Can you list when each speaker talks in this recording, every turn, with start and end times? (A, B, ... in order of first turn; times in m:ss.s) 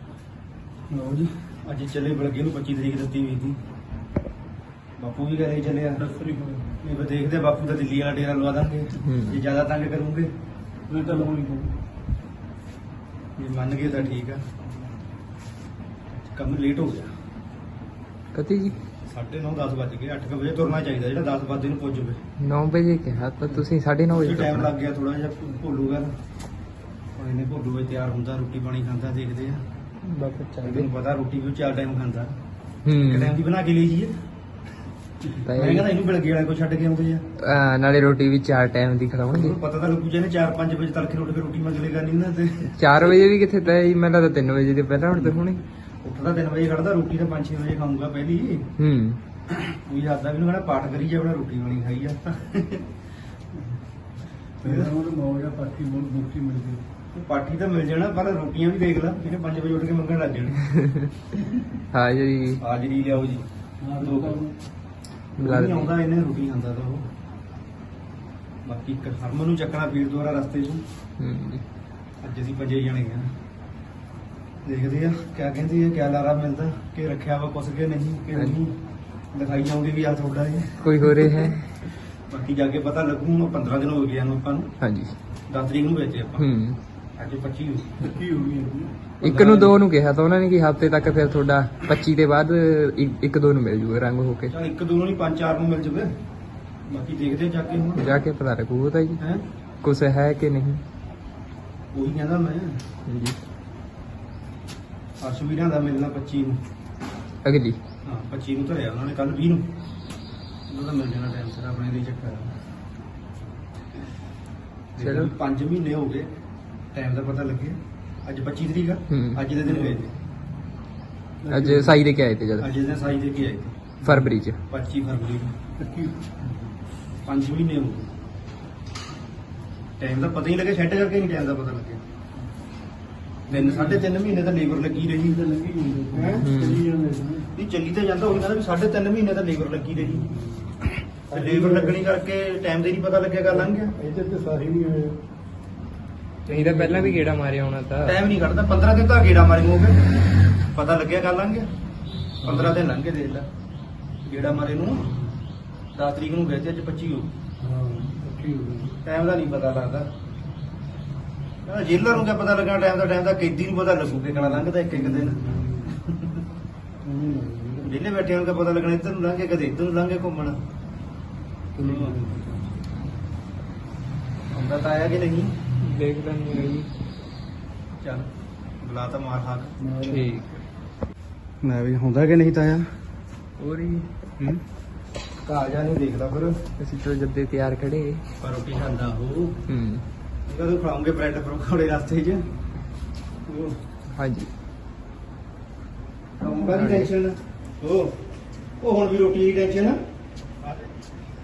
0:00.9-0:03.6 A
0:05.0-0:06.0 A
0:06.0-0:06.8 B
0:06.8-0:10.3 A
0:09.0-0:09.4 C
0:10.9-0:11.7 B
0:13.4-0:14.4 A
0:16.2-0:17.1 A
0:18.3-0:18.7 C
0:19.1-0:22.2 A
0:22.4-0:24.7 C
0:24.1-0:26.1 A
0:27.2-0:29.6 A
0:30.0-0:30.9 C
0:30.6-0:32.3 A
0:32.8-0:33.4 C
0:33.0-0:34.1 A
0:35.4-0:35.9 C
0:35.5-0:37.2 A
0:37.4-0:39.6 C
0:39.3-0:42.7 A
0:42.8-0:45.6 C
0:46.0-0:48.7 A
0:48.8-0:49.2 C
0:49.7-0:52.8 A
0:54.6-0:56.8 B
0:54.6-0:54.9 A
0:57.1-1:00.6 A
1:00.7-1:01.1 C
1:01.9-1:02.6 C
1:02.6-1:03.4 A
1:03.8-1:04.5 B
1:04.0-1:04.4 A
1:05.4-1:07.0 A
1:05.4-1:05.9 C
1:08.6-1:10.8 A
1:11.2-1:11.6 C
1:12.2-1:13.3 A
1:14.6-1:18.8 A
1:19.3-1:21.5 A
1:20.8-1:21.6 C
1:22.3-1:24.7 A
1:24.8-1:25.1 C
1:25.5-1:26.5 A
1:26.4-1:26.8 C
1:27.2-1:27.9 A
1:28.0-1:28.9 B
1:29.2-1:29.8 A
1:29.2-1:34.5 C
1:34.5-1:36.1 A
1:36.9-1:38.0 A
1:38.0-1:39.2 C
1:39.8-1:40.8 C
1:41.9-1:42.8 A
1:43.1-1:43.4 C
1:45.2-1:46.6 A
1:47.4-1:47.8 C
1:48.0-1:49.7 A
1:50.7-1:52.5 A
1:55.0-1:56.3 A
1:55.0-1:55.3 C
1:56.9-2:00.1 A
1:59.1-1:59.4 C
1:59.6-2:00.0 B
2:01.4-2:01.9 B
2:01.5-2:02.7 C
2:01.6-2:01.9 A
2:02.6-2:03.7 A
2:04.0-2:04.3 B
2:04.0-2:04.6 C
2:04.7-2:05.5 A
2:05.8-2:06.7 B
2:07.2-2:08.0 A
2:10.0-2:12.0 A
2:13.5-2:15.4 A
2:13.5-2:14.1 B
2:15.2-2:17.4 B
2:16.1-2:16.4 A
2:16.4-2:16.8 C
2:17.5-2:20.3 A
2:20.0-2:20.4 B
2:21.3-2:22.0 B
2:21.3-2:23.9 A
2:23.5-2:25.2 B
2:26.5-2:27.2 B
2:26.5-2:28.2 C
2:28.0-2:30.0 A
2:30.7-2:31.7 A
2:32.4-2:33.5 A
2:32.4-2:32.7 B
2:34.2-2:35.0 A
2:34.3-2:35.3 B
2:35.9-2:37.3 A
2:37.6-2:39.0 B
2:39.0-2:40.1 A
2:41.6-2:45.4 A
2:44.3-2:45.9 B
2:47.0-2:48.0 B
2:47.8-2:50.6 A
2:51.7-2:52.6 B
2:51.8-2:52.2 A
2:54.5-2:55.5 A
2:55.8-2:56.9 C
2:58.0-2:58.3 A
2:58.8-2:59.8 A
2:59.8-3:00.3 B
3:00.0-3:00.5 C
3:01.6-3:02.9 A
3:03.6-3:04.0 C
3:05.4-3:06.6 A
3:06.8-3:08.2 C
3:08.4-3:09.6 A
3:09.7-3:10.0 C
3:10.5-3:12.4 A
3:13.5-3:13.8 A
3:14.1-3:14.5 C
3:16.4-3:18.1 A
3:16.6-3:17.1 C
3:18.8-3:20.0 A